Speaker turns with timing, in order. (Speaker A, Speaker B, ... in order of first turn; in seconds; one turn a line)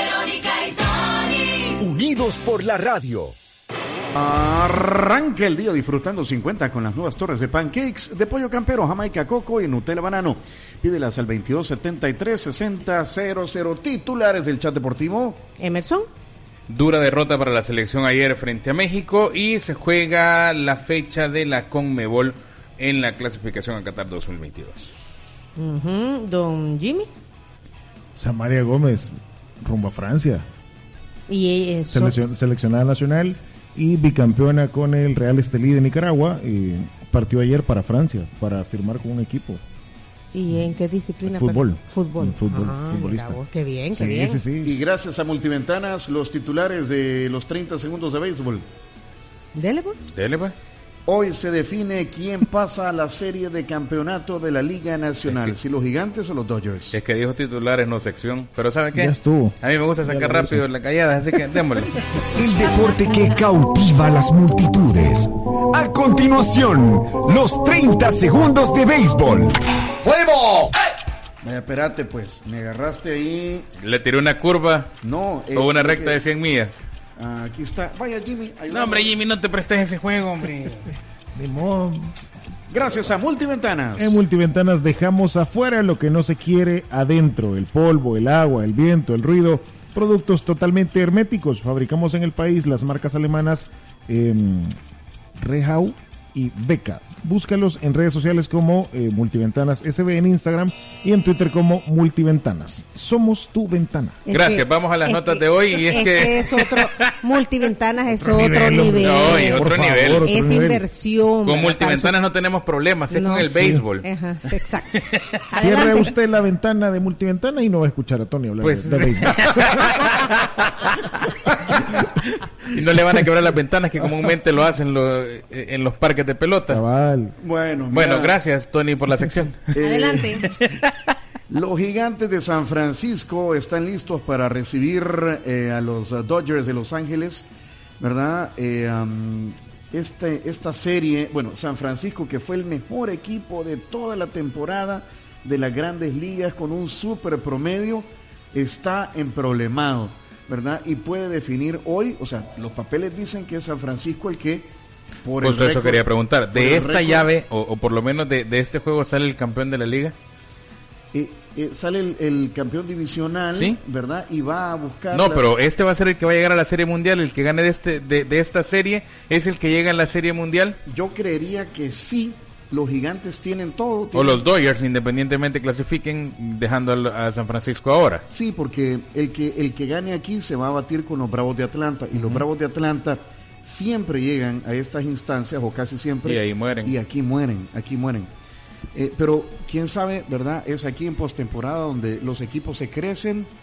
Speaker A: 1.8-3.4
Speaker B: 4.1-15.4
Speaker C: 15.6-16.1
Speaker D: 16.7-25.0
Speaker C: 25.6-27.1
Speaker E: 28.2-30.5
Speaker C: 31.3-32.2
Speaker E: 31.9-39.6
Speaker C: 40.3-44.4
Speaker E: 41.2-43.4
Speaker E: 43.9-44.7
Speaker B: 44.6-48.7
Speaker C: 49.5-50.0
Speaker D: 50.1-50.5
Speaker B: 51.1-57.0
Speaker D: 55.3-55.5
Speaker D: 56.9-61.9
Speaker E: 58.9-60.6
Speaker A: 62.4-69.6
Speaker A: 70.1-70.7
Speaker B: 71.4-73.7
Speaker D: 73.8-74.9
Speaker B: 75.0-76.2
Speaker D: 75.5-76.7
Speaker B: 77.2-79.1
Speaker D: 78.7-80.9
Speaker E: 81.3-82.2
Speaker B: 82.7-84.2
Speaker E: 84.0-94.8
Speaker E: 95.4-104.2
Speaker C: 104.2-109.7
Speaker D: 104.3-107.0
Speaker E: 108.1-110.8
Speaker D: 109.0-110.3
Speaker C: 110.2-112.1
Speaker D: 111.5-114.1
Speaker C: 113.1-116.1
Speaker E: 113.5-113.8
Speaker E: 115.6-119.4
Speaker D: 118.6-122.0
Speaker D: 122.7-126.8
Speaker E: 126.7-127.4
Speaker B: 127.4-128.3
Speaker D: 127.9-129.7
Speaker B: 129.7-130.5
Speaker C: 129.8-130.4
Speaker D: 130.5-130.9
Speaker B: 131.5-137.5
Speaker B: 138.0-154.7
Speaker B: 155.2-156.0
Speaker D: 155.4-160.2
Speaker B: 156.5-157.3
Speaker B: 161.1-165.5
Speaker D: 163.5-163.8
Speaker D: 165.1-170.8
Speaker B: 170.9-174.4
Speaker D: 174.1-178.2
Speaker B: 178.3-188.3
Speaker D: 186.2-186.9
Speaker B: 188.9-193.5